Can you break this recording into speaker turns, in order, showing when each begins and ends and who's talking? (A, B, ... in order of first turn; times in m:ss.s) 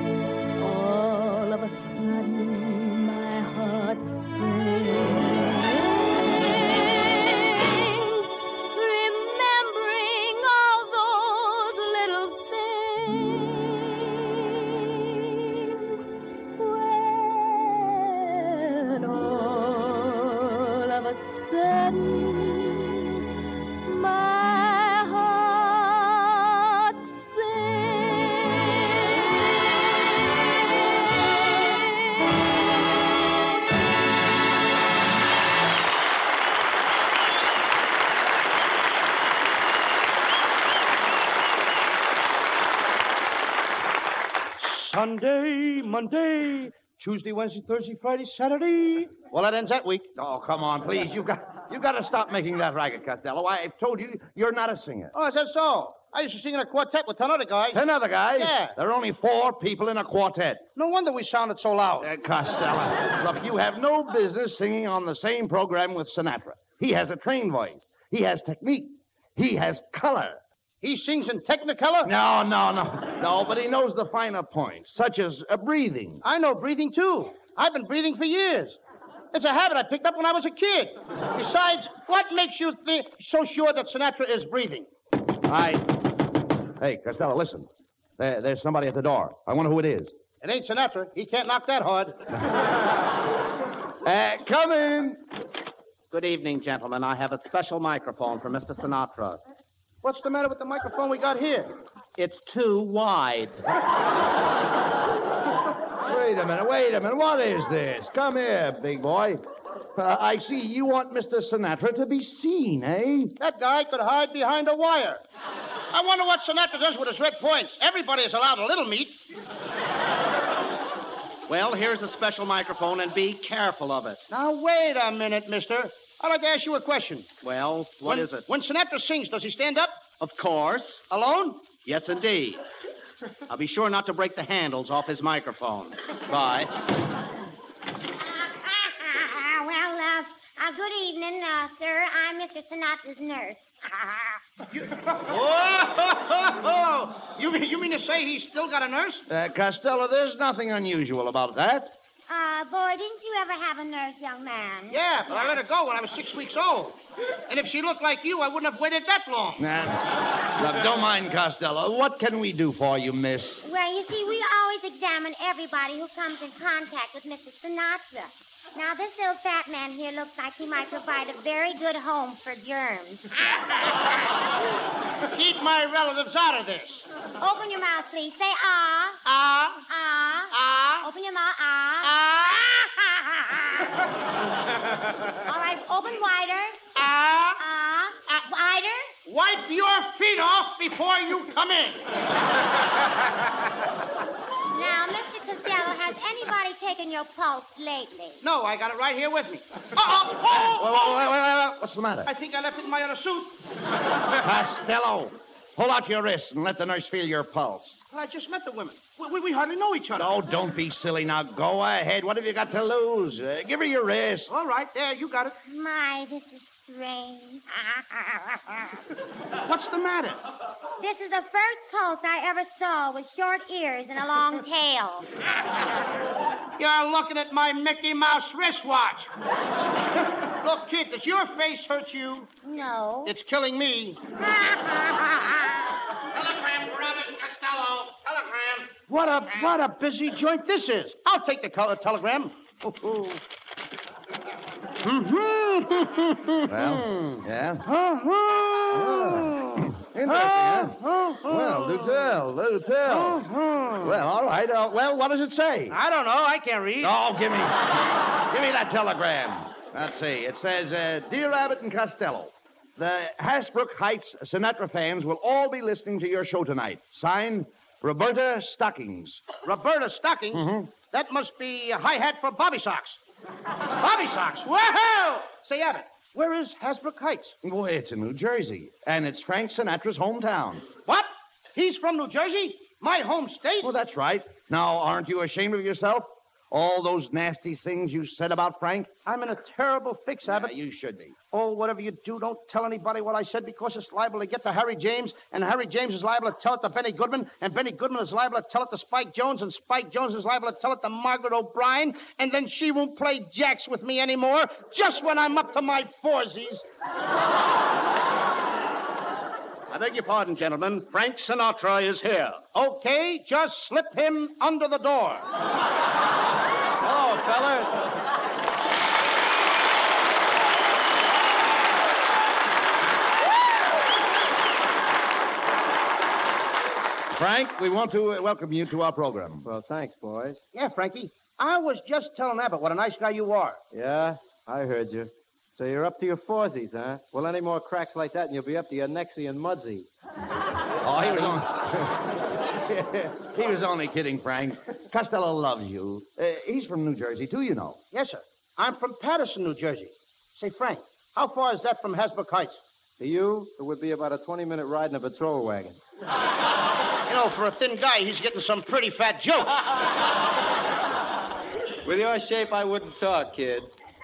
0:00.6-0:15.8 A
0:16.6-0:23.2 A
0:23.8-0:29.2 A
0:44.6-0:50.1 B
0:50.2-0:55.1 C
0:55.1-0:57.8 B
0:57.7-1:00.6 C
0:58.4-0:58.7 B
1:00.8-1:02.1 B
1:02.0-1:10.4 C
1:10.8-1:12.1 B
1:12.0-1:16.2 C
1:16.2-1:18.8 B
1:19.3-1:24.9 B
1:25.4-1:26.1 C
1:26.8-1:30.1 C
1:30.4-1:32.2 B
1:34.0-1:35.2 C
1:36.1-1:39.4 D
1:40.0-1:41.8 B
1:42.2-1:43.6 D
1:46.0-1:49.4 C
1:49.9-1:53.3 C
1:53.4-1:55.2 B
1:55.9-1:59.2 B
2:01.5-2:04.2 D
2:04.3-2:07.4 B
2:07.4-2:08.4 D
2:08.0-2:10.0 B
2:10.2-2:11.0 D
2:11.1-2:11.7 B
2:11.8-2:12.6 D
2:13.5-2:16.7 D
2:18.7-2:24.4 E
2:24.7-2:29.2 B
2:29.3-2:31.9 C
2:32.3-2:35.0 E
2:34.9-2:37.0 B
2:37.5-2:39.6 B
2:39.6-2:43.6 C
2:43.6-2:53.3 E
2:55.3-2:57.0 B
2:57.4-2:59.2 E
2:59.2-2:59.8 B
2:59.9-3:02.1 E
3:00.5-3:01.1 B
3:02.0-3:02.7 B
3:02.8-3:03.2 E
3:05.4-3:06.8 E
3:07.0-3:07.6 B
3:07.6-3:09.1 E
3:09.2-3:12.0 B
3:14.7-3:18.4 E
3:18.4-3:21.1 B
3:20.5-3:22.3 C
3:22.2-3:23.6 B
3:24.4-3:28.0 C
3:28.1-3:30.3 B
3:30.2-3:34.5 C
3:34.5-3:35.5 B
3:35.6-3:37.6 E
3:38.2-3:38.6 E
3:39.6-3:40.4 B
3:41.0-3:45.3 E
3:46.8-3:49.3 B
3:50.4-3:52.5 B
3:52.6-3:53.3 E
3:53.2-3:54.2 B
3:54.6-3:55.3 E
3:58.9-4:03.4 B
4:05.0-4:07.1 B
4:06.6-4:07.8 C
4:07.8-4:12.4 B
4:08.9-4:13.4 C
4:13.1-4:14.2 B
4:14.0-4:16.0 C
4:15.9-4:17.1 B
4:17.0-4:29.4 C
4:29.6-4:33.2 B
4:30.5-4:30.9 C
4:34.0-4:37.5 B
4:37.6-4:40.9 C
4:41.0-4:43.9 B
4:43.8-4:49.1 C
4:49.2-4:50.7 B
4:50.5-4:51.3 C
4:51.5-5:06.8 B
5:09.9-5:12.6 D
5:12.7-5:15.4 B
5:17.0-5:17.9 D
5:27.3-5:29.6 C
5:29.6-5:30.6 F
5:30.7-5:33.8 B
5:33.9-5:40.1 F
5:41.0-5:48.0 C
5:48.1-5:52.8 B
5:53.2-5:56.0 F
5:57.3-5:59.7 B
6:02.0-6:03.9 F